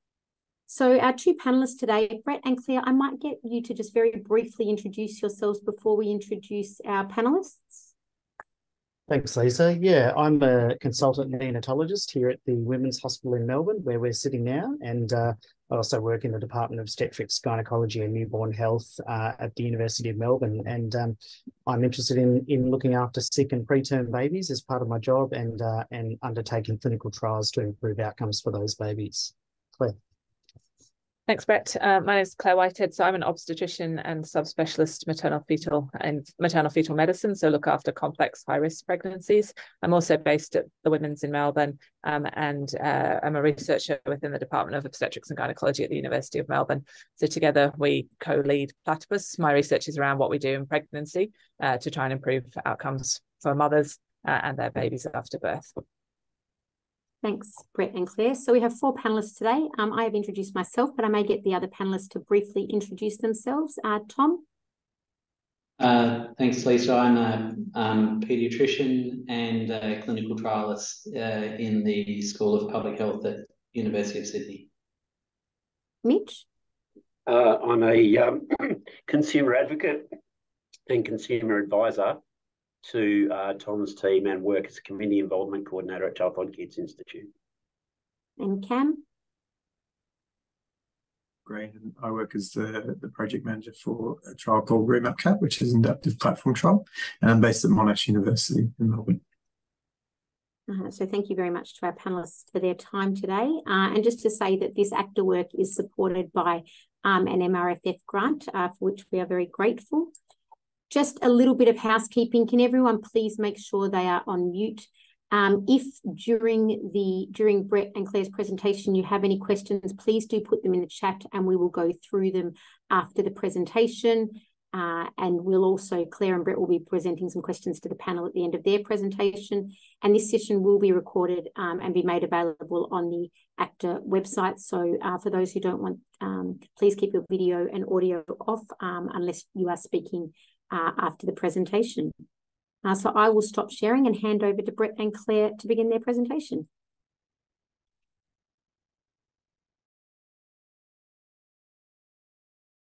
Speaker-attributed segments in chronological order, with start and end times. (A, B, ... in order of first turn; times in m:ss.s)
0:00.7-0:07.9 A
0:09.1-0:30.0 B
0:31.3-0:55.8 C
0:57.2-1:04.4 A
1:05.8-1:14.7 D
1:16.0-1:16.4 A
1:17.2-1:20.1 E
1:20.9-1:22.2 E
1:22.8-1:27.3 E
1:28.4-1:29.0 A
1:31.4-1:39.2 F
1:40.7-1:50.1 A
1:50.9-2:22.1 A
2:22.8-2:26.7 A